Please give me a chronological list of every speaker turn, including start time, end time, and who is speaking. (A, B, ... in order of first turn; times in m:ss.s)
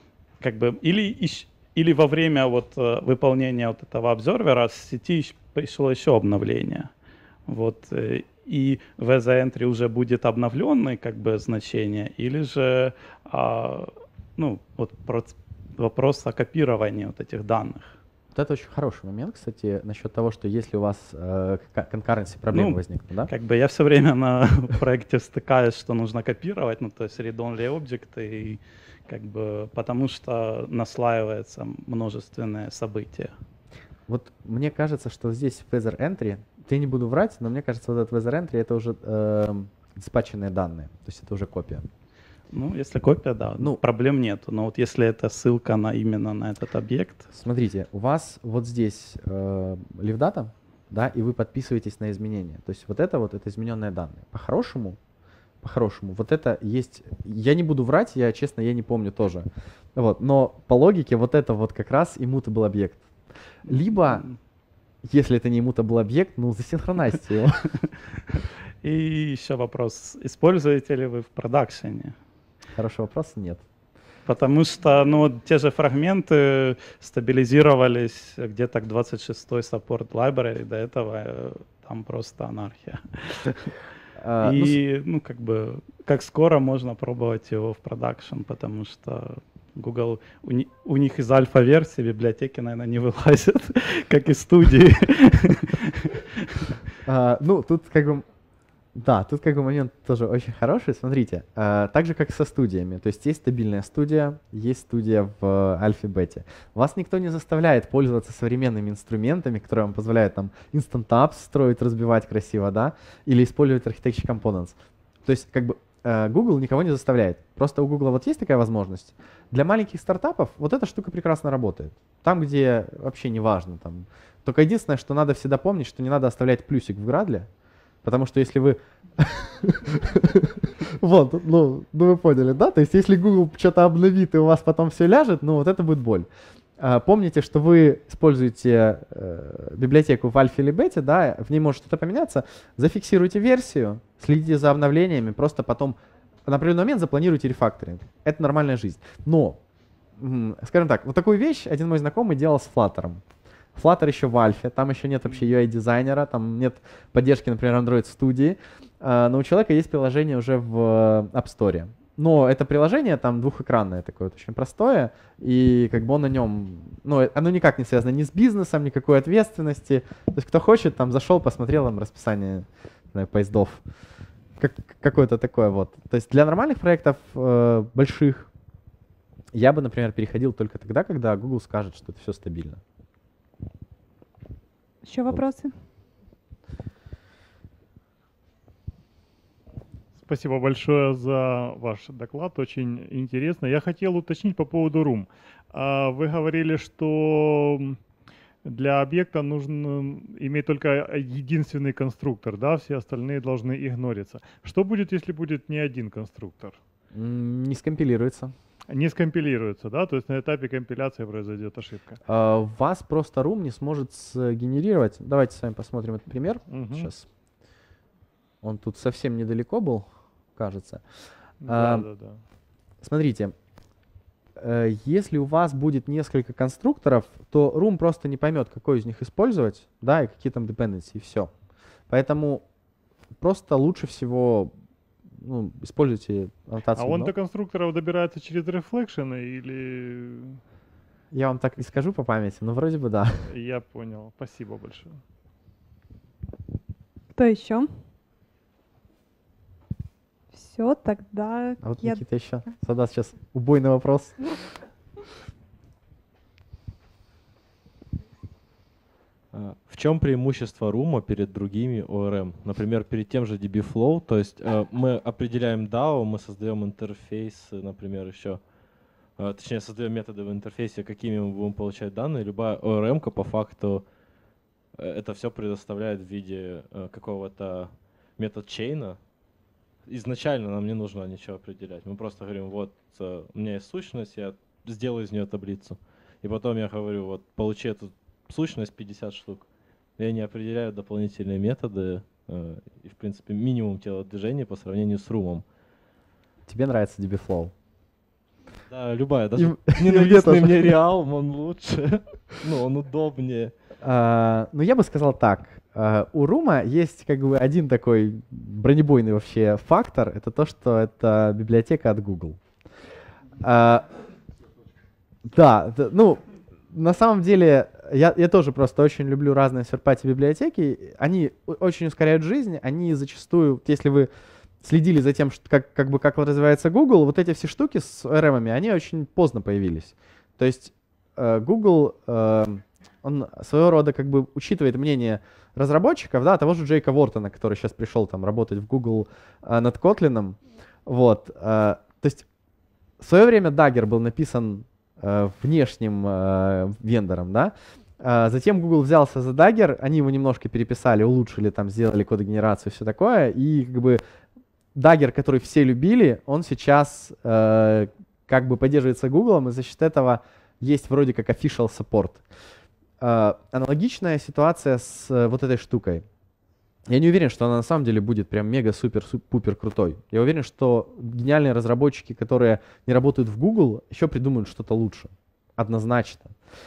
0:00.4-0:06.9 A
0:07.5-0:18.0 A
0:18.4-0:23.3 B
0:22.5-0:33.3 A
0:34.1-0:41.9 B
0:42.5-0:47.3 A
0:47.3-0:55.0 B
0:55.6-1:03.1 B
1:03.6-1:04.3 B
1:03.7-1:04.3 A
1:05.0-1:07.7 B
1:08.3-1:12.2 A
1:12.8-1:13.6 B
1:14.3-1:23.7 A
1:24.2-1:24.8 B
1:24.4-1:36.8 A
1:37.0-1:38.2 B
1:39.0-2:07.5 B
2:08.0-2:16.3 B
2:16.8-2:29.6 B
2:30.2-2:33.2 B
2:33.8-2:53.8 B
2:54.6-2:58.5 B
2:59.5-3:02.8 B
3:05.0-3:05.7 C
3:10.2-3:18.0 D
3:18.6-3:26.8 D
3:27.1-3:28.5 B
3:28.9-3:32.2 D
3:32.3-3:37.3 B
3:36.7-3:37.1 D
3:38.6-3:41.0 B
3:41.6-3:42.4 D
3:41.6-3:42.1 B
3:43.0-3:43.6 B
3:44.6-3:51.5 B
3:52.1-3:52.6 B
3:53.4-3:54.7 B
3:55.4-3:57.3 B
3:57.0-4:00.6 D
4:01.3-4:03.5 B
4:03.5-4:05.2 D
4:07.4-4:07.9 C
4:10.5-4:12.2 C
4:11.8-4:14.4 B
4:19.5-4:28.6 E
4:29.4-4:34.1 E
4:35.0-4:39.2 E
4:40.1-4:55.7 E
4:56.7-4:57.7 B
4:58.9-5:03.7 E
4:59.6-5:01.0 B
5:04.0-5:12.6 B
5:13.6-5:14.1 B
5:15.5-5:24.3 B
5:24.8-5:42.5 B
5:43.2-5:54.2 B
5:55.0-6:02.4 B
6:03.2-6:06.2 B
6:07.1-6:16.5 B